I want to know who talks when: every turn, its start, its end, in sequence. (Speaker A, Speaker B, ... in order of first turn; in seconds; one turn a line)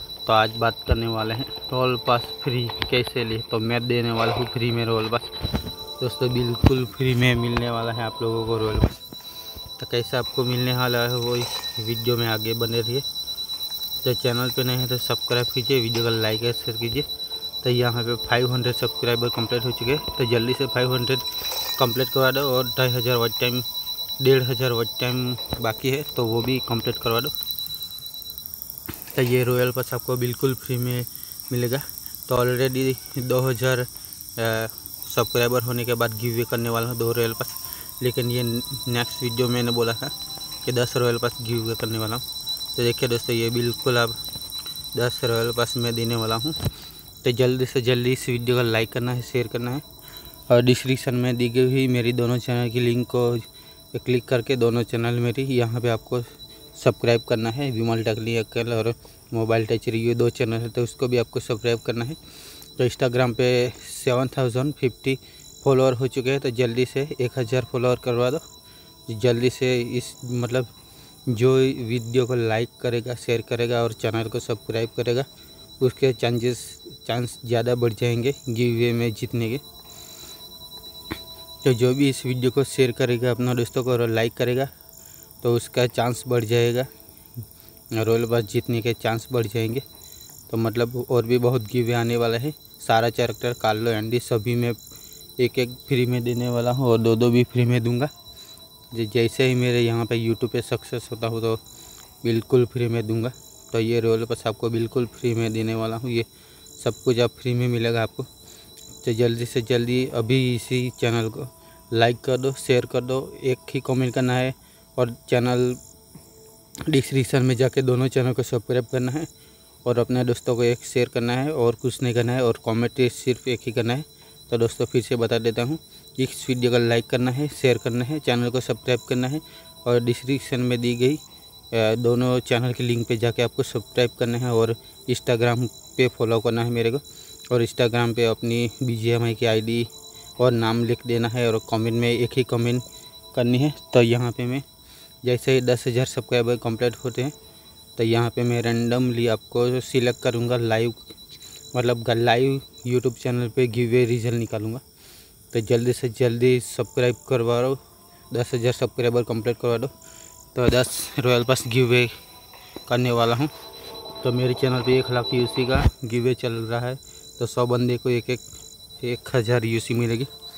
Speaker A: 0.2-5.3
Speaker A: 6.0-9.0
Speaker A: 9.8-13.1
Speaker A: 14.0-17.1
Speaker A: 17.6-23.6
Speaker A: 24.2-27.3
Speaker A: 29.1-44.2
Speaker A: 44.9-46.6
Speaker A: 47.2-49.8
Speaker A: 50.5-62.2
Speaker A: 62.8-68.4
Speaker A: 69.1-70.7
Speaker A: 71.3-75.3
Speaker A: 75.8-79.6
Speaker A: 81.6-84.7
Speaker A: 85.4-86.9
Speaker A: 87.9-89.8
Speaker A: 90.5-94.8
Speaker A: 95.4-98.1
Speaker A: 98.9-101.6
Speaker A: 102.2-108.3
Speaker A: 109.0-115.8
Speaker A: 116.9-119.3
Speaker A: 119.8-131.2
Speaker A: 131.7-144.6
Speaker A: 145.2-147.3
Speaker A: 147.9-151.1
Speaker A: 151.7-154.8
Speaker A: 155.5-157.8
Speaker A: 158.3-159.9
Speaker A: 160.5-162.1
Speaker A: 162.9-163.5
Speaker A: 164.2-168.4
Speaker A: 169.0-170.3